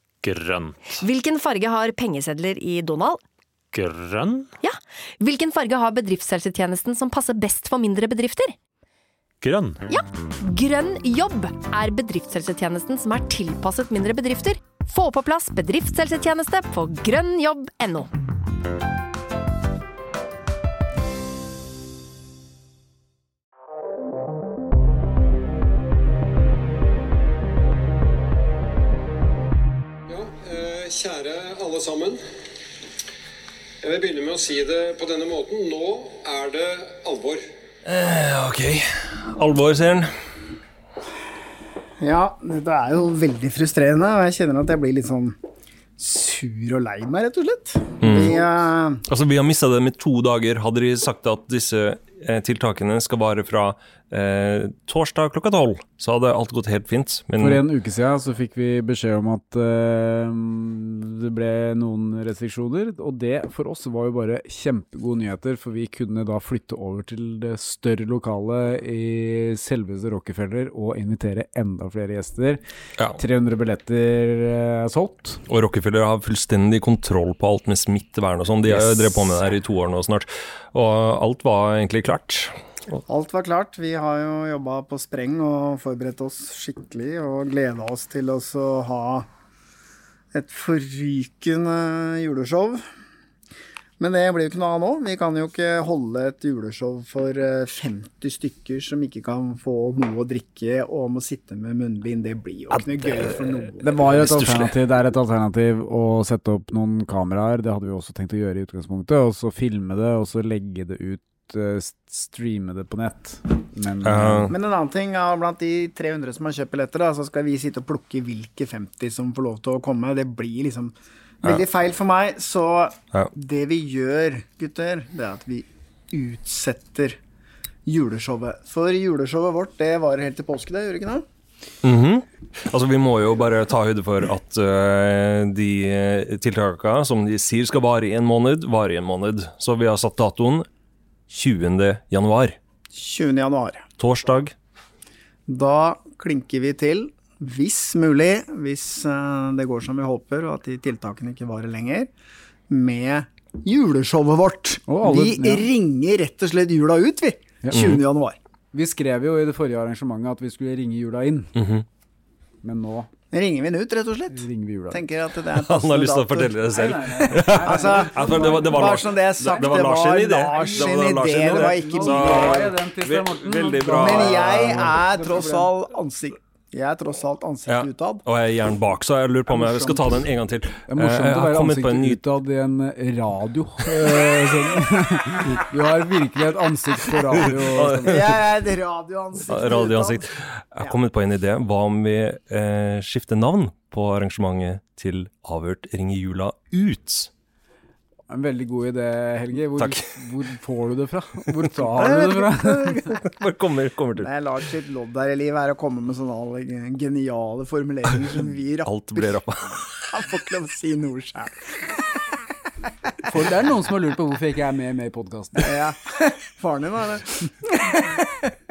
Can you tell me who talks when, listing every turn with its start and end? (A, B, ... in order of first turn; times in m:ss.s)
0:00.2-0:01.0 A
0:00.9-0:03.2 B
0:03.7-0:04.5 A
0:04.6-0:08.5 B
0:09.4-0:09.8 A
0:09.9-0:18.1 B
0:30.1-0:32.2 C
0:33.8-0:37.4 C
0:37.8-0:40.1 D
0:42.0-0:45.3 E
0:46.0-0:49.0 E
0:48.0-0:48.4 D
0:49.1-0:57.6 D
0:57.4-1:12.6 F
1:13.1-1:15.4 F
1:15.5-1:23.0 D
1:18.7-1:19.1 F
1:23.1-1:29.2 E
1:30.3-1:32.8 E
1:34.0-1:44.0 E
1:42.7-1:43.3 D
1:43.8-1:54.5 F
1:44.0-1:44.7 D
1:54.0-1:54.5 D
1:54.5-2:07.2 E
2:07.8-2:11.2 E
2:11.8-2:20.6 D
2:21.3-2:22.6 D
2:22.9-2:23.8 E
2:24.0-2:24.5 D
2:25.5-2:32.1 E
2:32.7-2:38.4 E
2:34.9-2:35.7 F
2:37.6-2:37.9 F
2:37.7-2:38.0 D
2:38.7-2:41.5 F
2:41.5-2:41.8 D
2:42.6-2:43.1 F
2:43.3-2:52.8 E
2:44.3-2:45.0 F
2:45.5-2:55.0 D
2:46.7-2:49.8 F
2:50.5-2:55.7 F
2:53.9-2:58.2 E
2:57.7-3:02.2 D
2:59.5-3:00.3 F
3:00.9-3:08.4 F
3:07.7-3:08.2 D
3:08.0-3:10.2 E
3:09.5-3:17.3 D
3:18.3-3:23.0 F
3:19.8-3:20.1 D
3:22.0-3:23.0 E
3:23.0-3:24.3 D
3:24.2-3:29.4 E
3:28.8-3:29.9 D
3:30.1-3:32.0 E
3:33.2-3:35.8 F
3:35.6-3:38.5 E